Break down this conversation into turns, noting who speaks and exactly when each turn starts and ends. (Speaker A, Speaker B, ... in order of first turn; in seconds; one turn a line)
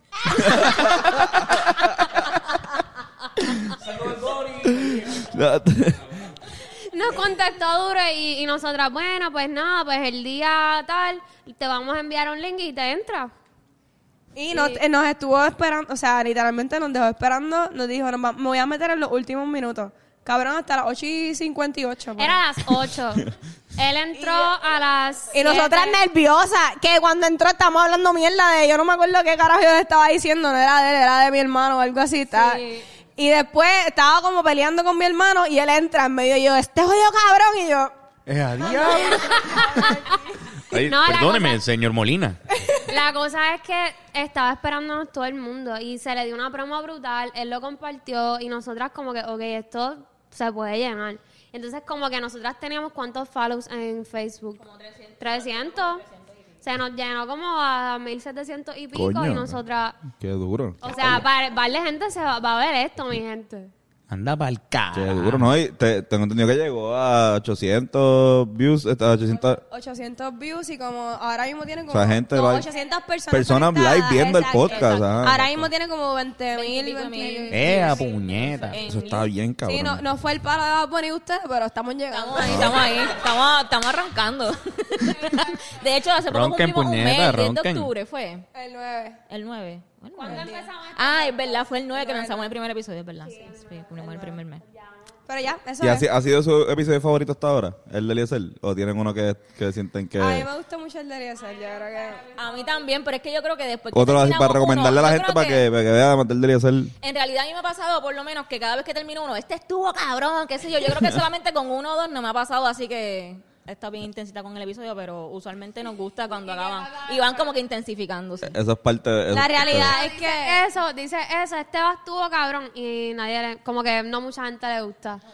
Speaker A: 0.3-1.4
Speaker B: 0.6-1.2
Speaker B: 4.1-6.2
Speaker A: 6.9-13.3
Speaker C: 14.3-22.4
Speaker A: 14.5-14.8
Speaker A: 22.2-26.0
Speaker C: 24.2-24.5
Speaker C: 25.3-32.6
Speaker A: 32.3-32.8
Speaker C: 33.2-37.9
Speaker D: 38.3-39.1
Speaker C: 38.6-40.3
Speaker A: 39.3-39.9
Speaker D: 40.7-42.4
Speaker A: 40.7-41.6
Speaker A: 42.9-54.6
Speaker E: 54.6-56.5
Speaker A: 55.2-56.0
Speaker A: 56.6-60.0
Speaker B: 58.9-59.6
Speaker B: 60.1-61.2
Speaker A: 60.8-63.7
Speaker D: 64.1-65.5
Speaker B: 64.9-69.6
Speaker C: 69.6-78.1
Speaker B: 71.9-72.7
Speaker B: 73.3-75.7
Speaker E: 74.4-75.2
Speaker E: 76.5-79.3
Speaker D: 77.5-78.8
Speaker B: 78.8-80.0
Speaker C: 79.6-83.1
Speaker E: 82.1-88.4
Speaker B: 82.4-82.8
Speaker D: 86.3-87.9
Speaker C: 88.5-89.2
Speaker E: 89.3-94.6
Speaker A: 90.2-91.8
Speaker C: 90.3-90.7
Speaker C: 91.9-92.5
Speaker A: 93.2-95.0
Speaker C: 95.3-96.1
Speaker B: 95.8-100.5
Speaker C: 100.2-102.2
Speaker A: 101.6-102.8
Speaker E: 102.3-105.7
Speaker B: 103.9-106.9
Speaker E: 107.0-118.5
Speaker A: 116.4-117.5
Speaker B: 118.5-120.0
Speaker C: 119.3-120.6
Speaker A: 119.7-125.2